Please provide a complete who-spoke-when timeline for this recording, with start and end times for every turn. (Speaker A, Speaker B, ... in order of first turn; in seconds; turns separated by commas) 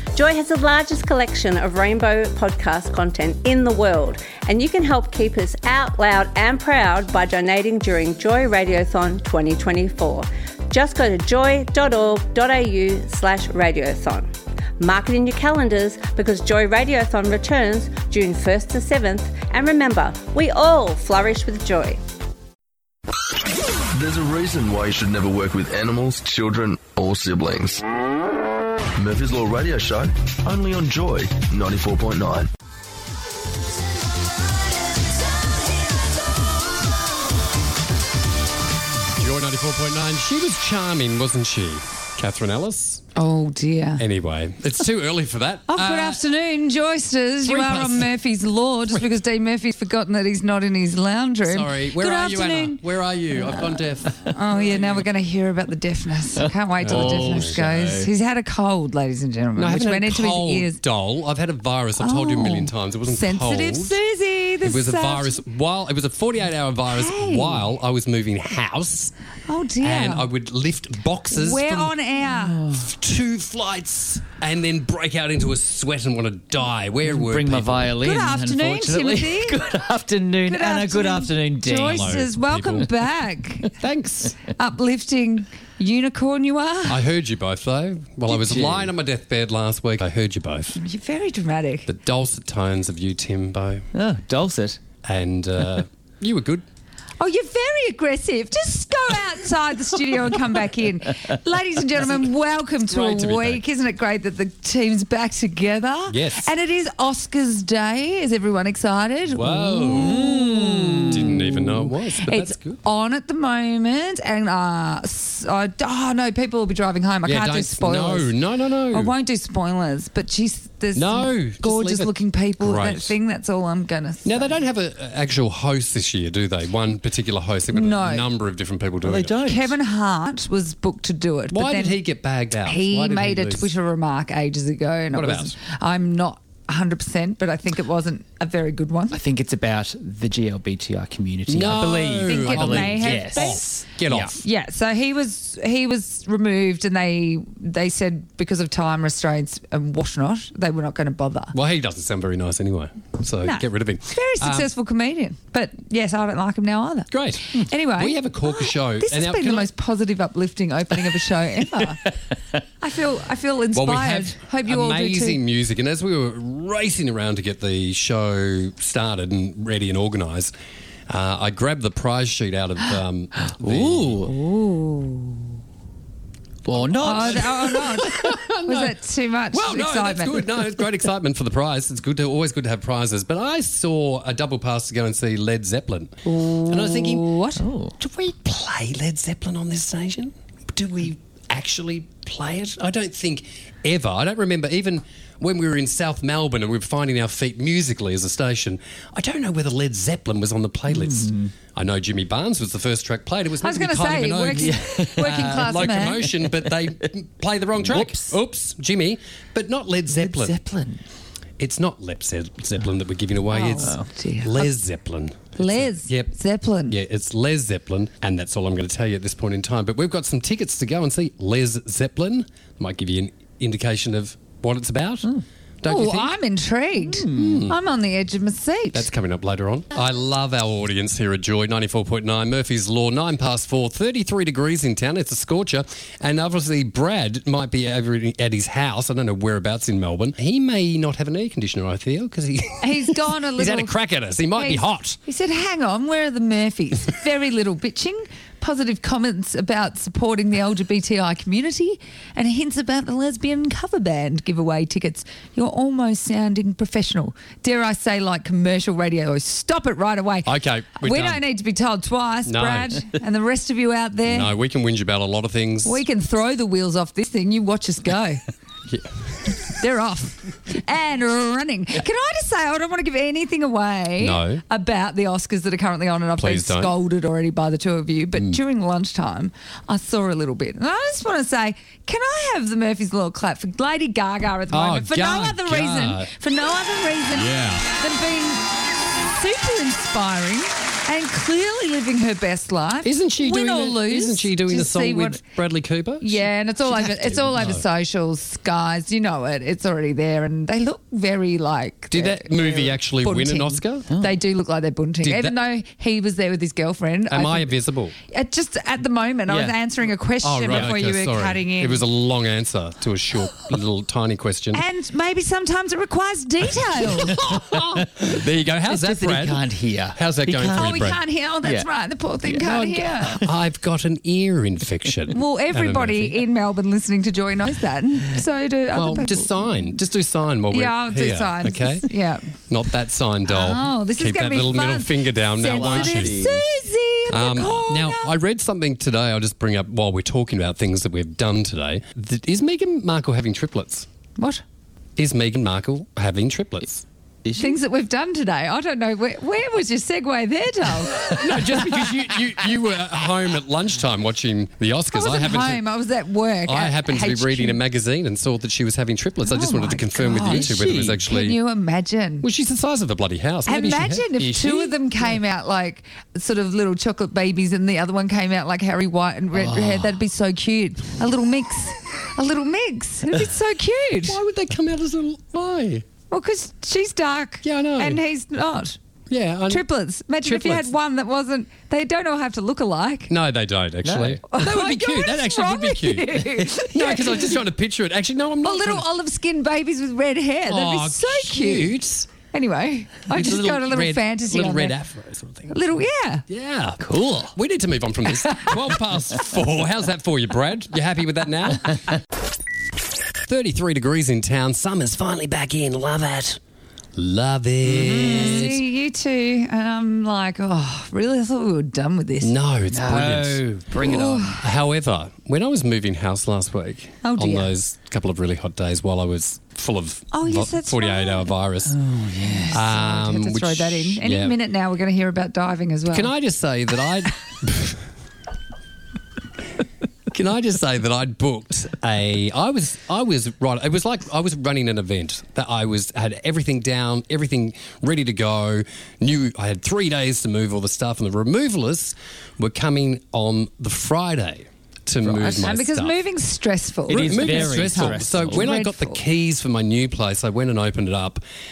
Speaker A: 0.1-22.0, Speaker B: 23.9-27.8, Speaker B: 29.0-32.5, Speaker C: 39.1-43.0, Speaker D: 43.1-44.0, Speaker C: 44.0-46.2, Speaker D: 45.7-52.8, Speaker E: 47.5-48.1, Speaker C: 51.4-54.8, Speaker D: 54.3-60.8, Speaker E: 56.8-58.1, Speaker C: 56.8-57.5, Speaker C: 59.5-64.0, Speaker D: 62.0-65.4, Speaker C: 64.6-69.1, Speaker D: 66.9-67.6, Speaker D: 69.5-70.3, Speaker C: 69.8-71.9, Speaker D: 71.3-72.6, Speaker E: 72.3-72.9, Speaker C: 72.7-78.0, Speaker E: 77.1-82.2, Speaker D: 78.0-79.7, Speaker D: 80.5-83.7, Speaker C: 81.8-82.9, Speaker E: 83.8-84.4, Speaker D: 84.4-87.0, Speaker C: 86.8-90.8, Speaker E: 88.3-88.9, Speaker D: 90.8-91.9, Speaker C: 91.8-93.8, Speaker E: 93.9-94.8, Speaker C: 95.0-96.6, Speaker D: 97.2-118.3, Speaker C: 102.9-103.6, Speaker C: 106.1-106.5, Speaker C: 109.3-110.2, Speaker E: 109.7-111.6, Speaker C: 111.1-112.8, Speaker C: 117.2-119.1, Speaker D: 118.9-124.6, Speaker C: 120.9-123.1, Speaker C: 124.2-129.4, Speaker D: 127.7-128.3, Speaker E: 129.0-129.8, Speaker D: 129.4-132.0, Speaker C: 131.5-133.7, Speaker D: 132.6-139.2, Speaker C: 135.1-135.6, Speaker E: 139.1-144.3, Speaker C: 141.5-144.4, Speaker D: 142.2-143.8, Speaker D: 144.3-151.5, Speaker C: 151.5-154.7, Speaker D: 153.4-162.0, Speaker C: 157.1-159.7, Speaker D: 162.8-165.4, Speaker C: 163.7-170.5, Speaker C: 171.1-174.3, Speaker E: 173.4-174.3, Speaker D: 174.3-175.4, Speaker E: 176.6-177.8, Speaker C: 176.8-179.0, Speaker D: 177.0-180.4, Speaker C: 179.5-187.3, Speaker D: 186.2-187.7, Speaker E: 187.6-187.9, Speaker C: 188.0-210.6, Speaker E: 200.9-201.5, Speaker D: 203.6-206.3, Speaker E: 204.6-205.7, Speaker E: 206.3-207.0, Speaker E: 207.8-208.3, Speaker E: 210.1-211.0, Speaker C: 211.6-216.3, Speaker D: 213.5-214.7, Speaker E: 213.8-214.1, Speaker D: 215.6-217.0, Speaker C: 216.9-226.3, Speaker D: 225.8-229.1, Speaker E: 227.1-227.7, Speaker C: 227.3-227.8, Speaker C: 228.9-245.2, Speaker D: 242.8-243.9, Speaker D: 244.5-264.5, Speaker C: 260.4-261.4, Speaker C: 262.4-263.0, Speaker C: 264.3-266.0, Speaker D: 265.8-268.4, Speaker D: 269.7-288.7, Speaker C: 274.2-274.6, Speaker C: 276.4-276.9, Speaker C: 284.7-286.3, Speaker C: 287.3-287.9, Speaker D: 289.3-295.4, Speaker C: 293.0-297.9, Speaker D: 296.2-312.0, Speaker C: 302.1-304.1, Speaker E: 304.1-304.4, Speaker C: 305.2-305.5, Speaker C: 307.3-308.1, Speaker E: 309.5-309.8, Speaker C: 310.4-314.8, Speaker D: 314.7-317.4, Speaker E: 317.2-318.3, Speaker C: 317.3-321.2, Speaker E: 318.9-321.9, Speaker D: 320.7-323.4, Speaker C: 322.4-326.4, Speaker D: 325.3-329.7, Speaker C: 328.9-332.1, Speaker D: 330.7-332.4, Speaker C: 332.7-336.5, Speaker D: 333.4-338.3, Speaker E: 335.6-336.6, Speaker C: 337.3-344.1, Speaker D: 344.4-344.6, Speaker C: 345.1-347.0, Speaker E: 347.4-347.8, Speaker D: 347.5-351.8, Speaker C: 351.2-355.8, Speaker D: 355.1-357.8, Speaker C: 356.6-361.6, Speaker D: 359.4-362.4, Speaker E: 360.3-361.2, Speaker C: 362.4-365.0, Speaker D: 363.6-374.4, Speaker C: 369.6-370.2, Speaker C: 374.2-376.0, Speaker D: 376.3-379.0, Speaker C: 377.6-378.2, Speaker C: 379.3-379.9, Speaker D: 379.7-383.3, Speaker C: 380.4-380.9, Speaker C: 383.3-389.1, Speaker E: 384.0-384.4, Speaker D: 384.5-387.6, Speaker D: 388.6-391.9, Speaker C: 390.7-392.3, Speaker D: 392.5-394.9, Speaker C: 393.3-395.8, Speaker D: 395.7-396.4, Speaker C: 396.5-402.1, Speaker E: 397.0-397.5, Speaker C: 403.5-406.6, Speaker C: 407.1-408.8, Speaker E: 407.8-408.7, Speaker D: 408.0-412.5, Speaker C: 412.4-422.0, Speaker E: 412.9-414.6, Speaker D: 414.0-414.6, Speaker D: 417.2-417.7, Speaker D: 420.3-421.5, Speaker E: 421.9-422.8, Speaker D: 422.7-426.3, Speaker C: 422.7-424.6, Speaker C: 426.1-428.0, Speaker C: 430.3-446.2, Speaker D: 445.3-449.2, Speaker E: 447.1-448.7, Speaker C: 447.1-451.4